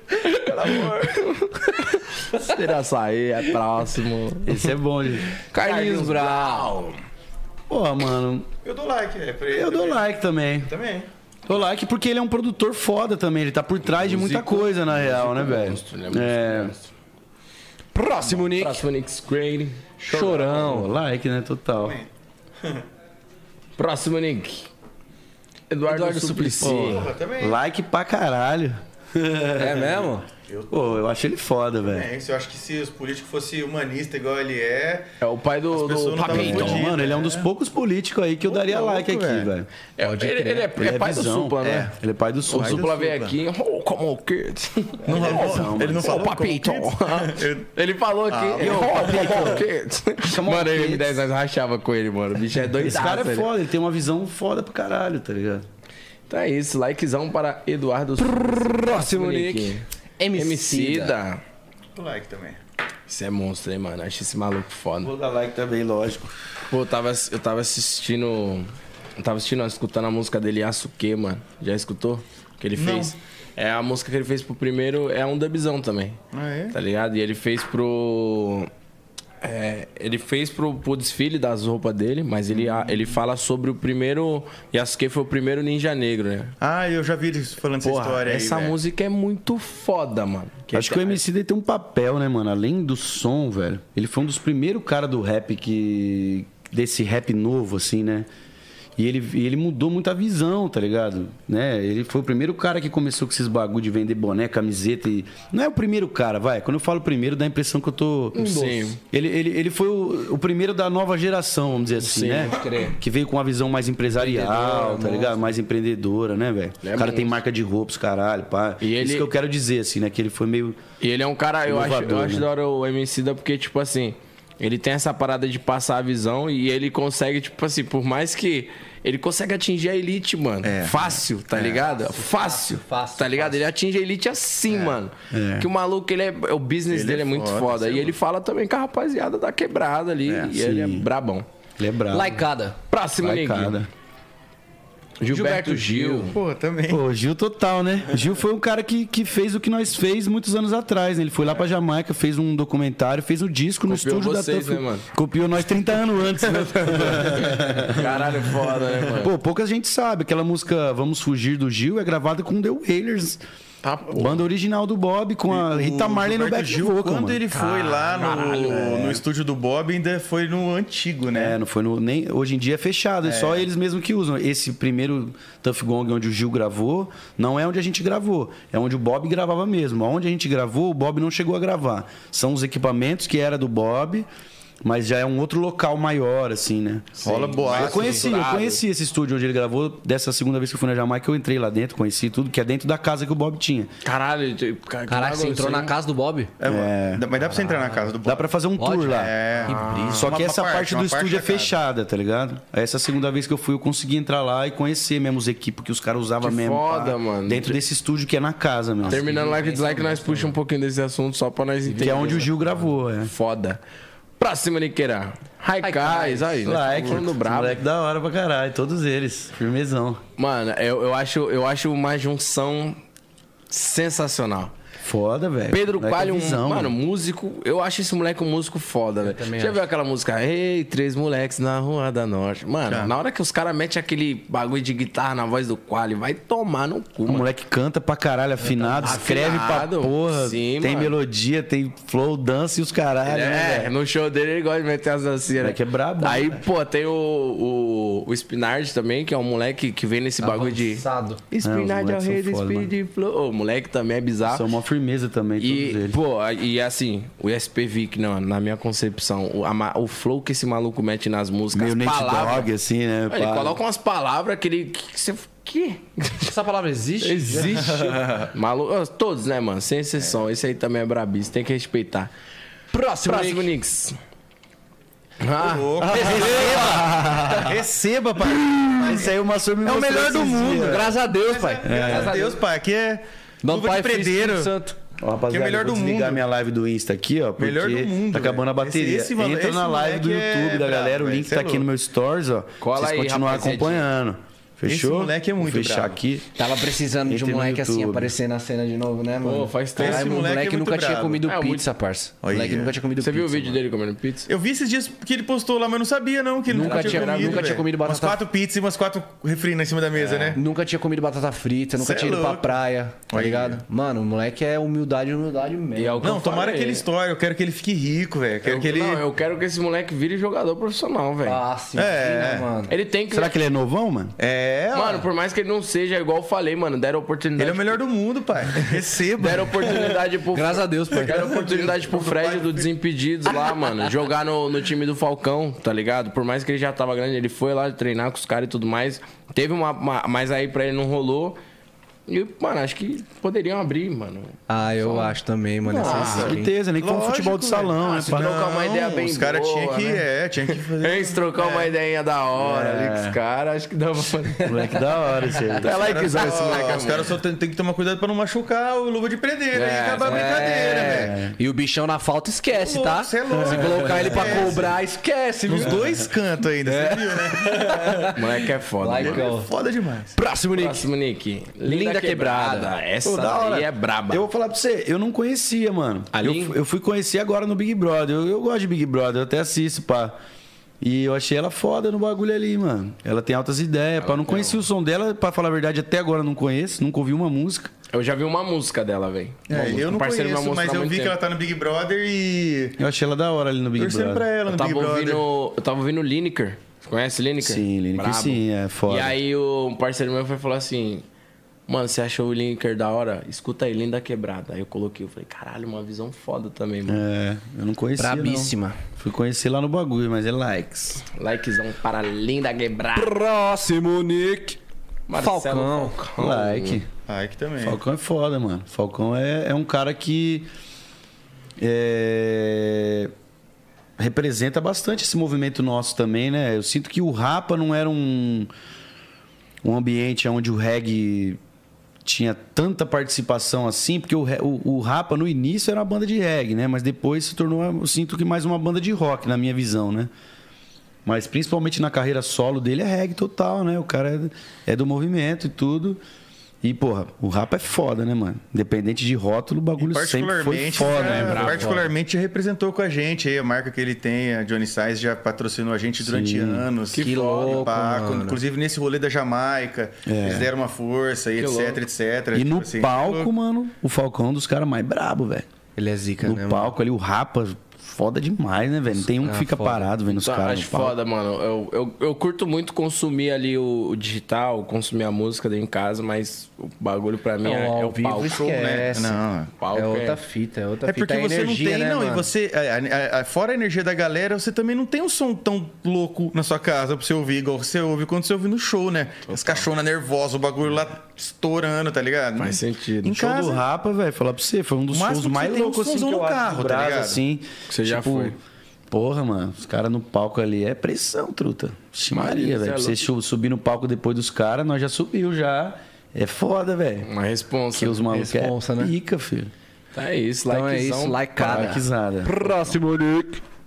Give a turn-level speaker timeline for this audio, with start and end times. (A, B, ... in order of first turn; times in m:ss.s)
0:00.1-0:04.7 A
0:04.4-0:05.3 B
0:05.5-0:07.0 A
0:05.5-0:06.7 C
0:07.7-0:08.5 B
0:08.6-0:10.0 D
0:09.5-0:10.7 B
0:10.6-0:11.1 D
0:11.5-0:16.7 B
0:13.8-0:16.9 A
0:18.0-0:18.8 C
0:18.2-0:20.0 A
0:20.0-0:20.9 C
0:20.1-0:22.0 B
0:21.8-0:22.1 D
0:23.8-0:24.7 A
0:25.7-0:27.1 A
0:25.9-0:27.0 C
0:26.6-0:30.1 B
0:26.8-0:27.6 D
0:29.6-0:30.3 C
0:30.5-0:30.9 D
0:30.7-0:32.1 B
0:31.8-0:35.1 D
0:35.2-0:36.9 A
0:35.7-0:37.5 D
0:36.2-0:39.7 B
0:38.4-0:39.5 D
0:40.0-0:41.9 A
0:40.0-0:40.7 C
0:40.8-0:42.9 B
0:42.5-0:43.4 D
0:42.5-0:53.5 A
0:45.0-0:47.7 D
0:45.1-0:46.3 B
0:48.3-0:49.6 D
0:48.6-0:49.7 B
0:50.3-0:51.2 B
0:52.8-0:55.6 B
0:56.3-1:01.4 A
0:58.2-1:01.1 C
1:02.0-1:02.6 D
1:03.1-1:05.1 A
1:05.0-1:06.3 B
1:06.7-1:16.2 A
1:12.8-1:13.1 D
1:16.3-1:16.8 D
1:16.7-1:18.7 A
1:19.4-1:26.6 A
1:22.6-1:22.9 D
1:26.6-1:28.8 D
1:27.8-1:31.2 A
1:30.7-1:38.3 B
1:39.0-2:00.8 B
1:48.4-1:49.0 A
1:52.0-1:52.6 A
1:52.3-1:53.0 C
1:54.2-1:55.6 C
1:56.8-1:57.4 A
1:58.8-1:59.3 A
2:01.0-2:21.5 A
2:01.7-2:02.5 B
2:10.6-2:11.8 D
2:11.9-2:13.6 C
2:14.7-2:15.0 D
2:15.3-2:15.7 B
2:16.9-2:18.1 D
2:20.5-2:21.1 B
2:21.8-2:22.4 B
2:22.1-2:22.8 C
2:22.9-2:23.8 A
2:23.2-2:23.9 B
2:25.2-2:26.4 A
2:25.3-2:26.3 C
2:26.2-2:27.0 D
2:26.9-2:38.2 B
2:33.9-2:35.1 A
2:36.8-2:39.3 A
2:39.2-2:43.4 B
2:43.8-2:44.4 A
2:44.1-2:47.4 B
2:45.5-2:51.6 D
2:47.5-2:49.0 A
2:48.7-2:49.2 B
2:51.3-3:04.3 B
2:53.2-2:53.7 D
3:04.8-3:13.9 B
3:07.2-3:08.8 A
3:07.2-3:08.4 D
3:14.0-3:16.0 A
3:15.1-3:16.5 C
3:16.6-3:18.5 D
3:16.6-3:17.3 B
3:17.6-3:18.1 C
3:18.2-3:19.4 B
3:18.8-3:20.3 C
3:19.1-3:21.8 D
3:19.6-3:20.2 A
3:20.2-3:29.3 B
3:26.4-3:27.8 A
3:29.1-3:30.6 C
3:29.1-3:32.6 A
3:31.9-3:32.5 C
3:32.0-3:33.3 B
3:33.2-3:33.8 A
3:34.4-3:37.8 A
3:35.8-3:37.0 C
3:36.6-3:40.2 B
3:40.4-3:43.0 A
3:43.7-3:44.7 A
3:45.0-3:47.0 B
3:45.7-3:57.5 A
3:49.2-3:49.8 C
3:52.9-3:53.1 D
3:57.2-4:03.9 B
3:58.6-3:59.5 C
3:59.0-4:01.2 A
4:03.2-4:14.7 A
4:05.6-4:06.6 B
4:10.4-4:11.4 C
4:11.6-4:12.9 B
4:14.4-4:16.2 B
4:15.6-4:22.7 A
4:21.7-4:23.8 B
4:23.3-4:26.6 A
4:26.4-4:28.2 C
4:27.2-4:32.3 A
4:27.7-4:28.2 D
4:32.9-4:33.7 C
4:33.2-4:34.2 A
4:35.4-4:36.6 A
4:35.6-4:39.3 D
4:36.0-4:37.8 C
4:36.5-4:37.4 B
4:38.6-4:41.2 B
4:39.8-4:44.7 D
4:40.2-4:42.6 C
4:41.8-4:42.3 B
4:43.6-4:45.0 C
4:45.2-4:56.5 B
4:45.5-4:46.4 D
4:47.6-4:51.9 D
4:52.8-4:54.1 A
4:54.9-4:56.2 D
4:56.6-5:03.8 C
4:57.3-4:58.3 B
4:59.4-5:00.4 A
5:00.0-5:01.4 D
5:01.4-5:01.9 A
5:02.4-5:03.0 D
5:03.2-5:04.5 A
5:04.5-5:10.6 D
5:06.7-5:08.4 C
5:06.8-5:07.8 A
5:10.2-5:10.6 A
5:10.5-5:16.3 C
5:12.0-5:12.8 D
5:13.3-5:13.8 D
5:16.0-5:17.1 A
5:16.2-5:19.3 D
5:18.6-5:21.6 A
5:21.4-5:22.9 C
5:22.0-5:22.8 D
5:22.9-5:23.6 A
5:23.3-5:24.4 B
5:24.4-5:25.3 D
5:24.9-5:28.0 A
5:27.6-5:30.1 D
5:28.8-5:41.6 A
5:30.5-5:31.5 C
5:31.2-5:32.9 D
5:42.3-5:45.2 A
5:44.7-5:46.7 C
5:45.9-5:52.0 D
5:46.0-5:46.6 A
5:46.2-5:48.5 B
5:48.0-5:54.8 A
5:52.6-5:53.4 B
5:54.6-5:55.9 B
5:54.8-5:55.0 C
5:55.6-5:56.8 C
5:55.8-5:57.4 A
5:55.8-6:01.4 D
5:59.7-6:01.1 A
6:00.2-6:06.1 C
6:01.1-6:01.5 B
6:02.7-6:04.9 D
6:03.7-6:04.7 A
6:05.7-6:08.4 D
6:06.8-6:09.7 C
6:08.3-6:09.5 A
6:09.1-6:10.4 D
6:10.4-6:11.1 C
6:10.7-6:14.5 A
6:11.8-6:12.9 C
6:13.2-6:20.4 B
6:16.3-6:16.8 A
6:21.0-6:27.9 B
6:24.2-6:24.8 A
6:28.1-6:31.4 A
6:29.7-6:33.0 D
6:29.7-6:30.0 B
6:33.0-6:34.5 B
6:34.0-6:35.4 D
6:34.7-6:41.2 A
6:37.6-6:39.4 B
6:41.9-6:47.2 A
6:47.1-6:51.2 B
6:48.2-6:49.0 C
6:51.3-6:53.4 A
6:53.2-6:54.8 C
6:55.3-6:57.0 A
6:55.3-6:56.3 C
6:56.4-6:57.1 B
6:57.3-6:58.0 D
6:57.8-7:00.7 B
7:01.8-7:03.3 B
7:04.2-7:08.7 B
7:09.8-7:11.6 B
7:12.2-7:20.3 B
7:21.2-7:26.2 B
7:26.8-7:31.8 B
7:30.0-7:43.5 D
7:31.0-7:32.0 A
7:31.5-7:32.0 C
7:36.2-7:36.9 B
7:37.1-7:37.9 A
7:37.2-7:38.6 C
7:40.2-7:40.7 B
7:41.6-7:42.0 A
7:42.5-7:45.7 B
7:46.0-7:46.9 C
7:46.4-7:51.2 B
7:49.4-7:50.1 C
7:50.4-7:59.1 A
7:57.6-8:02.5 C
7:58.5-7:59.7 D
7:59.8-8:00.4 A
8:01.0-8:13.8 D
8:09.5-8:09.9 A
8:12.6-8:13.4 A
8:13.3-8:18.6 B
8:15.1-8:17.4 D
8:17.9-8:18.6 A
8:19.1-8:27.3 B
8:22.3-8:23.2 A
8:27.2-8:28.2 A
8:28.0-8:29.7 B
8:28.3-8:29.1 C
8:30.1-8:32.0 A
8:30.7-8:33.6 C
8:31.6-8:33.0 B